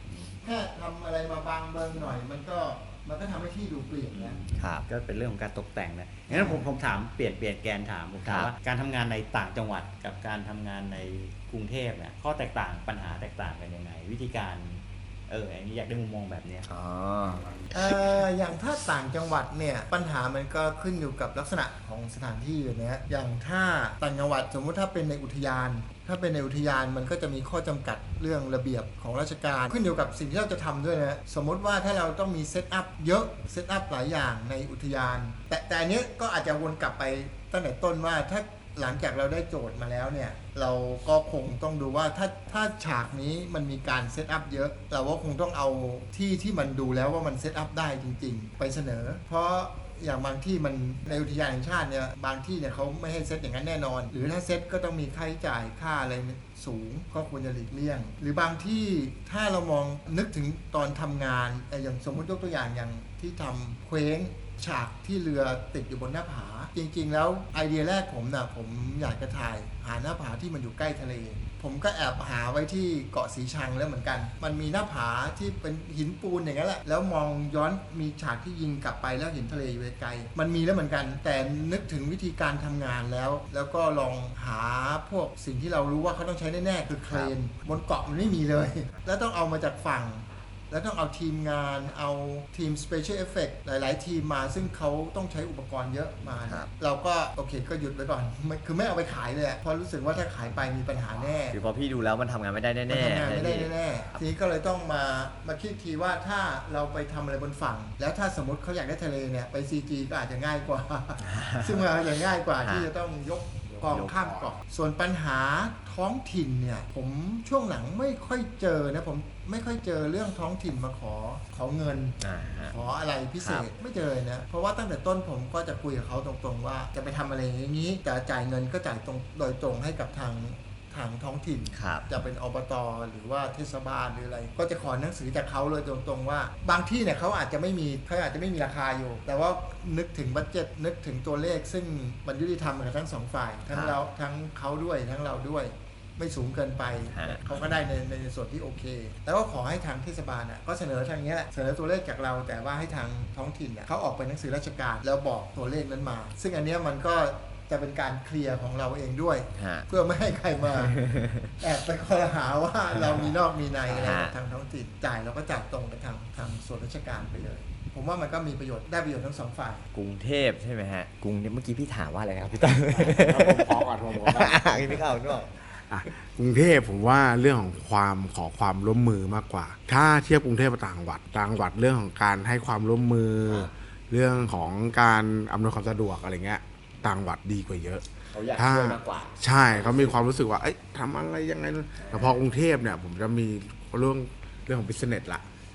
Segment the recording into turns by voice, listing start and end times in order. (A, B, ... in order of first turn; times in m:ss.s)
0:00.4-0:04.4 A
0:04.1-0:16.7 B
0:04.5-0:04.8 C
0:06.3-0:06.6 C
0:08.2-0:08.5 C
0:16.7-0:17.5 C
0:17.7-1:41.6 A
1:41.5-1:44.2 C
1:42.9-2:41.0 A
1:51.2-1:51.8 C
1:52.6-1:52.9 C
1:53.7-1:54.6 D
2:02.2-2:02.8 C
2:03.4-2:03.6 C
2:11.7-2:12.0 C
2:23.7-2:24.0 C
2:27.1-2:27.4 C
2:39.5-2:39.9 C
2:40.7-2:41.5 C
2:41.6-2:49.8 A
2:43.9-2:44.3 C
2:49.9-2:55.5 C
2:52.7-3:15.5 D
3:03.4-3:03.7 C
3:08.3-3:10.2 C
3:12.0-3:12.4 C